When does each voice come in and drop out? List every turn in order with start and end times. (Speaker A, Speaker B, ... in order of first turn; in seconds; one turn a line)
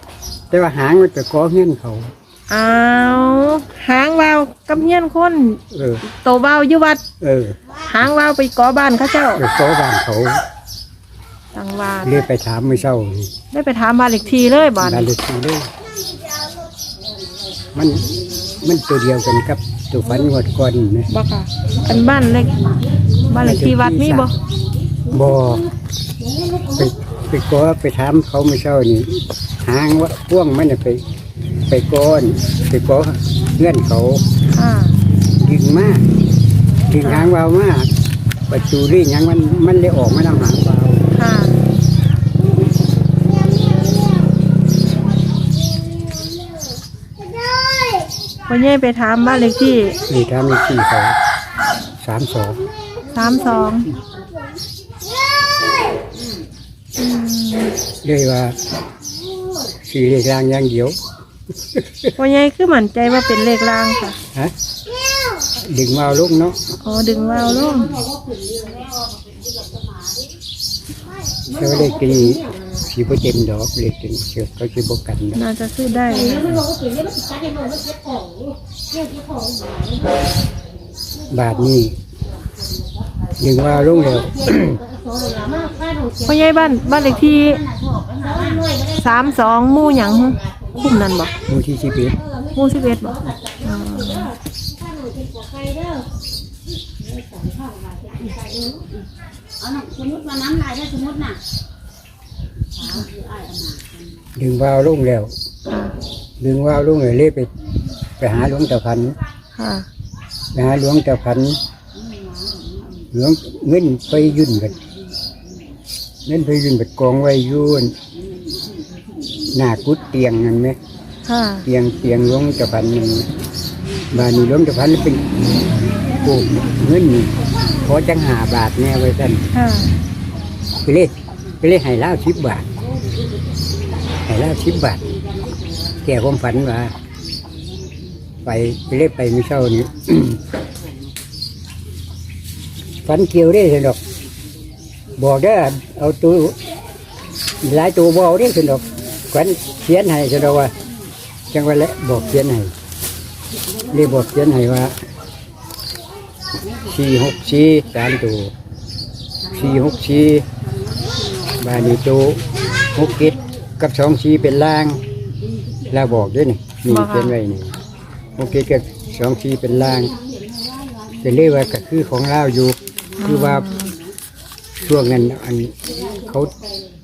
Speaker A: 0.5-2.1
Speaker B: 2.5-7.0
Speaker A: 5.7-6.0
Speaker A: 7.2-7.6
Speaker B: 7.8-9.4
Speaker A: 9.4-10.4
Speaker B: 11.5-12.3
Speaker A: 12.0-13.3
Speaker B: 13.5-15.1
Speaker A: 14.8-15.7
Speaker A: 17.7-18.1
Speaker A: 18.6-21.1
Speaker B: 21.1-22.7
Speaker B: 23.3-24.3
Speaker A: 23.3-24.3
Speaker A: 25.1-25.7
Speaker A: 26.7-31.0
Speaker A: 31.7-34.3
Speaker B: 34.5-35.0
Speaker A: 35.4-36.1
Speaker A: 36.9-37.9
Speaker B: 37.0-37.3
Speaker A: 38.5-41.1
Speaker B: 41.1-41.6
Speaker B: 48.5-50.0
Speaker A: 50.1-51.2
Speaker A: 52.0-52.6
Speaker B: 53.1-53.9
Speaker B: 57.0-57.8
Speaker A: 58.0-58.6
Speaker A: 59.8-61.0
Speaker A: 61.7-62.1
Speaker B: 62.2-64.2
Speaker A: 65.6-66.6
Speaker B: 66.8-68.0
Speaker A: 71.5-75.4
Speaker B: 75.3-76.5
Speaker A: 81.3-82.0
Speaker A: 83.4-84.8
Speaker B: 86.2-87.6
Speaker C: 87.8-88.6
Speaker B: 88.7-91.3
Speaker A: 91.5-92.2
Speaker B: 92.5-94.3
Speaker C: 99.6-101.4
Speaker C: 102.9-103.8
Speaker A: 104.3-105.3
Speaker B: 105.7-105.9
Speaker A: 106.4-107.5
Speaker A: 108.2-109.2
Speaker B: 109.5-109.8
Speaker A: 110.5-111.6
Speaker A: 113.1-114.8
Speaker A: 116.2-117.9
Speaker A: 119.5-120.8
Speaker B: 121.2-121.7
Speaker A: 121.7-123.3
Speaker A: 124.1-129.4
Speaker B: 129.5-129.9
Speaker A: 130.8-132.7
Speaker A: 134.2-135.1
Speaker A: 136.0-136.9
Speaker A: 138.4-140.4
Speaker A: 143.1-144.0
Speaker A: 145.2-146.6
Speaker A: 147.6-150.7
Speaker A: 151.5-152.7
Speaker A: 153.9-155.0
Speaker A: 156.9-158.5
Speaker A: 159.5-160.4
Speaker A: 161.6-165.0
Speaker A: 165.9-167.8
Speaker B: 166.9-167.4
Speaker A: 168.4-170.1
Speaker A: 171.2-173.7
Speaker B: 173.2-173.9
Speaker A: 174.8-176.5